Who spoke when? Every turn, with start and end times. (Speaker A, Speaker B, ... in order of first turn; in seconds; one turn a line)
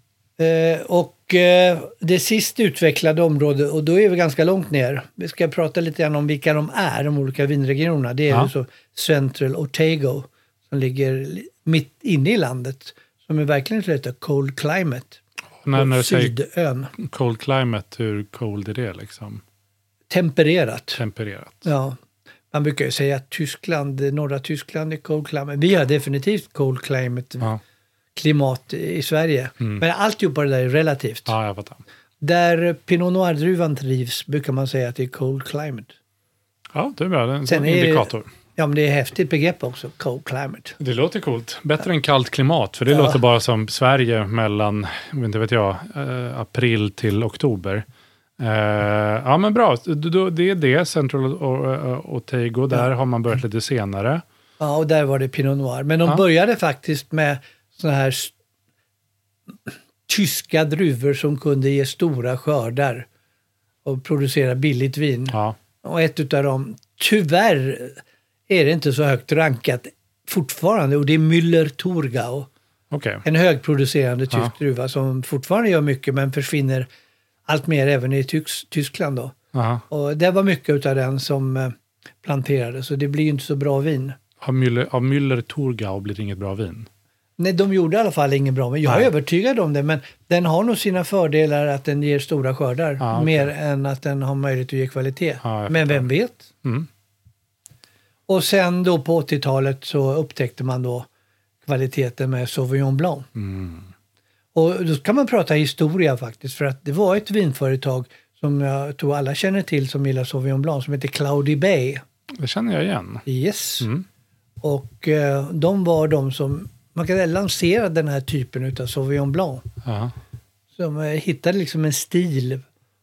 Speaker A: 0.4-15.2
Speaker B: 15.6-16.4
Speaker A: 15.8-16.9
Speaker B: 17.0-19.4
Speaker A: 20.1-21.0
Speaker B: 21.0-21.7
Speaker A: 21.6-22.0
Speaker A: 22.5-27.5
Speaker A: 28.2-31.3
Speaker B: 31.3-31.8
Speaker A: 32.2-35.9
Speaker B: 36.7-38.3
Speaker A: 37.5-40.8
Speaker B: 40.8-47.9
Speaker A: 42.9-43.2
Speaker B: 48.4-54.2
Speaker A: 54.6-58.3
Speaker A: 59.7-63.1
Speaker A: 63.9-72.5
Speaker B: 65.3-65.6
Speaker B: 72.9-73.2
Speaker A: 73.2-76.9
Speaker A: 77.5-79.3
Speaker B: 79.5-79.8
Speaker A: 79.9-84.2
Speaker B: 84.4-86.9
Speaker A: 87.4-96.5
Speaker B: 93.0-93.5
Speaker B: 95.4-96.1
Speaker A: 98.3-101.1
Speaker A: 101.7-103.3
Speaker B: 103.4-103.9
Speaker A: 104.5-112.0
Speaker B: 112.4-113.3
Speaker A: 113.3-113.9
Speaker A: 114.6-119.7
Speaker B: 119.8-120.1
Speaker A: 120.8-122.6